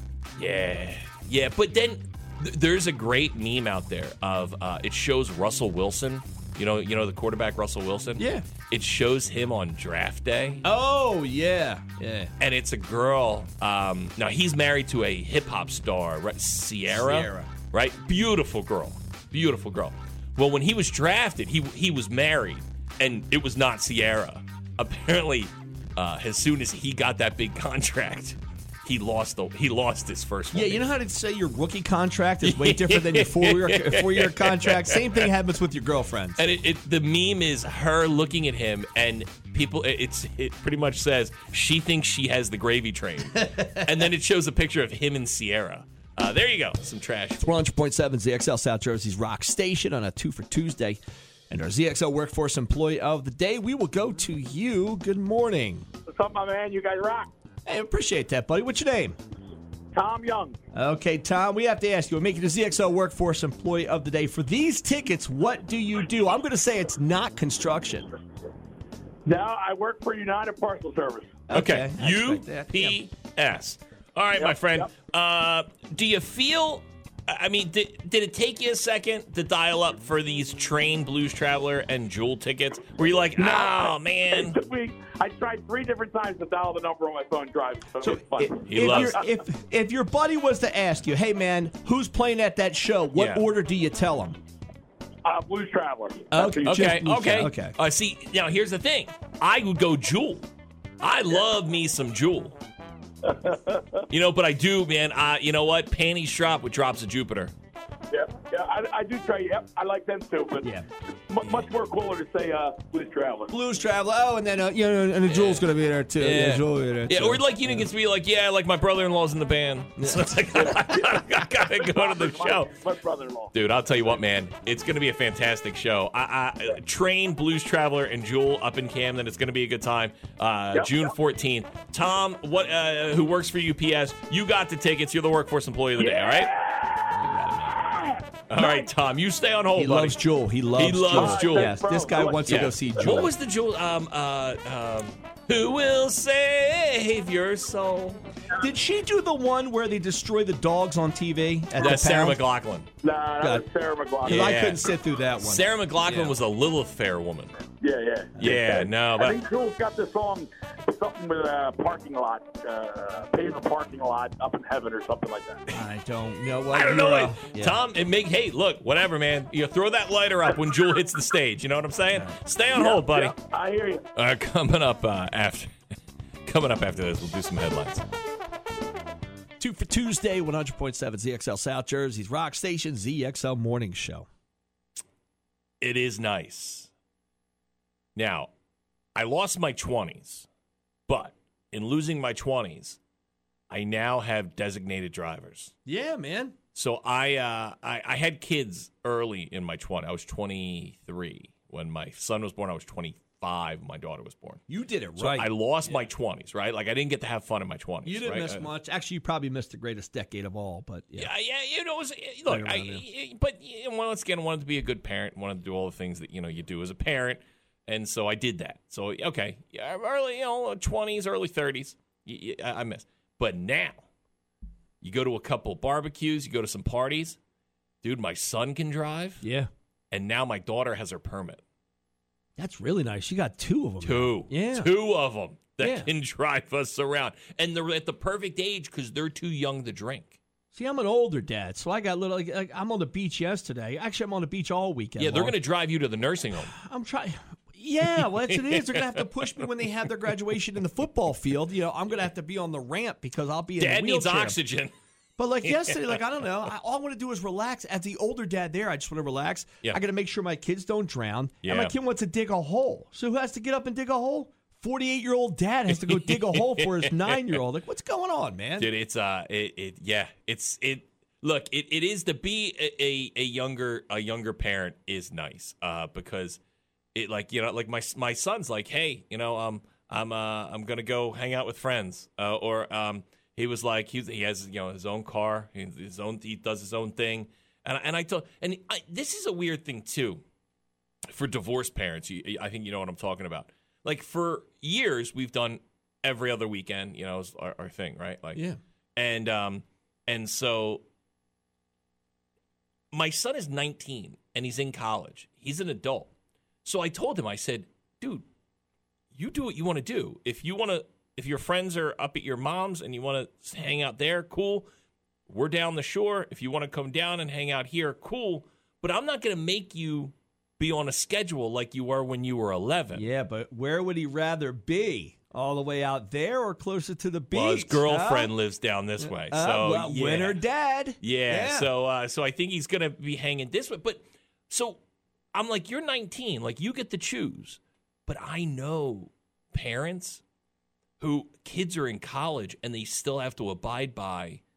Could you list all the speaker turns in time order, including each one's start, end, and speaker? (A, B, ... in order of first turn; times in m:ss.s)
0:00.4-0:10.6 A
0:08.2-0:08.4 B
0:10.6-0:12.3 B
0:12.4-0:30.9 A
0:16.9-0:17.5 B
0:30.5-0:36.4 B
0:32.4-0:35.3 A
0:36.4-0:47.5 A
0:43.4-0:43.9 B
0:47.4-0:51.0 B
0:51.5-0:55.9 B
0:56.1-0:57.3 C
0:57.7-0:59.2 B
0:59.9-1:00.6 C
1:00.8-1:08.1 B
1:09.3-1:11.4 C
1:11.5-1:13.0 B
1:11.5-1:24.6 A
1:14.4-1:14.9 C
1:23.4-1:29.2 C
1:28.0-1:34.4 B
1:28.7-1:29.2 A
1:33.2-1:33.5 A
1:35.2-1:36.9 C
1:36.3-1:37.8 B
1:36.5-1:40.4 A
1:41.0-1:42.6 A
1:43.2-1:44.0 C
1:44.1-1:47.5 A
1:48.1-1:50.7 C
1:51.3-1:53.5 C
1:51.4-1:51.7 A
1:53.5-1:57.9 B
1:55.3-1:55.6 A
1:56.2-2:02.7 A
2:00.0-2:00.3 B
2:00.5-2:03.5 C
2:03.5-2:16.5 A
2:10.7-2:11.1 C
2:16.0-2:17.0 C
2:17.1-2:17.8 B
2:17.8-2:18.9 C
2:18.5-2:20.2 A
2:19.8-2:23.3 B
2:20.8-2:21.8 A
2:21.1-2:23.1 C
2:22.4-2:28.2 A
2:28.6-2:32.4 B
2:31.8-2:32.9 A
2:33.0-2:34.7 C
2:34.2-2:36.3 B
2:34.2-2:34.9 A
2:35.4-2:37.6 A
2:37.8-2:45.6 C
2:38.4-2:39.4 A
2:45.7-2:47.8 B
2:46.7-2:53.4 A
2:52.7-2:54.0 C
2:54.2-2:55.8 A
2:56.4-2:58.0 A
2:59.6-3:04.3 B
3:05.8-3:06.9 A
3:08.2-3:08.5 A
3:09.2-3:10.5 A
3:11.1-3:13.0 A
3:13.7-3:15.7 A
3:15.9-3:16.5 B
3:16.8-3:24.6 A
3:24.7-3:25.5 B
3:25.2-3:28.7 A
3:28.0-3:31.3 B
3:31.2-3:44.0 A
3:32.5-3:33.0 B
3:45.0-3:47.4 A
3:48.0-3:49.4 A
3:49.4-3:49.7 B
3:50.1-3:51.6 A
3:52.6-3:54.9 B
3:54.0-4:00.4 A
3:55.8-3:56.1 B
4:00.7-4:05.6 B
4:05.2-4:06.7 A
4:06.7-4:14.6 B
4:08.2-4:09.6 A
4:13.8-4:14.9 A
4:15.4-4:28.9 B
4:15.6-4:16.2 A
4:21.6-4:21.9 A
4:25.9-4:27.6 A
4:28.8-4:36.6 A
4:37.1-4:50.4 A
4:51.3-4:58.6 A
4:59.2-5:01.0 A
5:03.1-5:06.3 A
5:06.8-5:08.5 A
5:09.3-5:14.9 A
5:15.5-5:23.3 A
5:23.2-5:28.5 B
5:27.5-5:30.6 A
5:29.2-5:31.9 B
5:31.2-5:35.0 A
5:35.5-5:40.4 A
5:41.2-5:44.6 A